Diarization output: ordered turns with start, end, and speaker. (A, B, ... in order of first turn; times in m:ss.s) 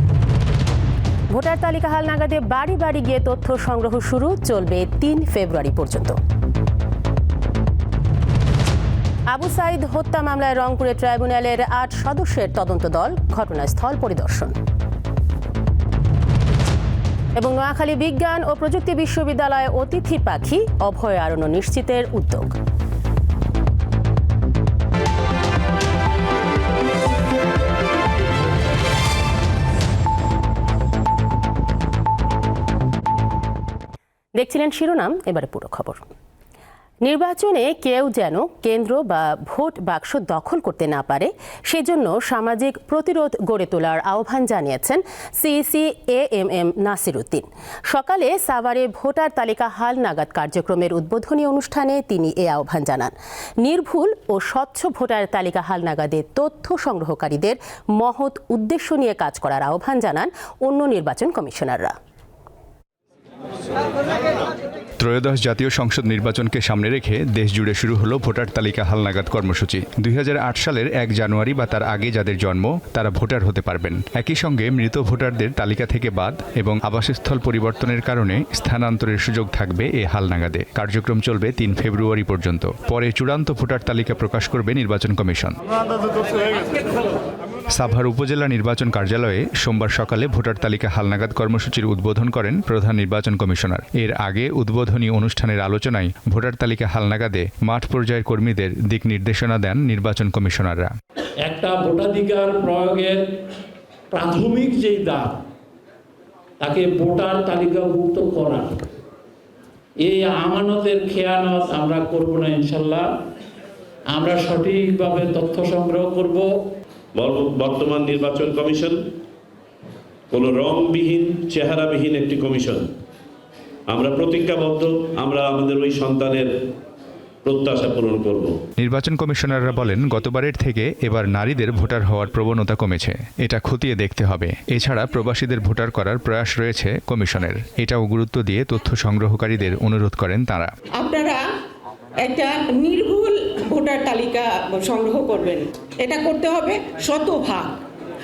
0:01.3-0:06.2 A
0:09.3-0:14.6 A
0:17.4-0:22.5 A
0:34.4-0:36.0 A
0:37.0-1:01.9 A
1:05.0-1:25.6 B
1:27.7-1:40.9 B
1:41.5-1:43.3 C
1:44.1-1:45.4 C
1:46.6-1:48.8 C
1:50.0-1:53.1 C
1:54.1-1:56.5 C
1:57.2-1:59.0 D
2:00.3-2:02.9 D
2:03.9-2:06.5 D
2:07.4-2:08.6 D
2:08.8-2:20.7 B
2:21.0-2:21.4 E
2:22.2-2:27.8 E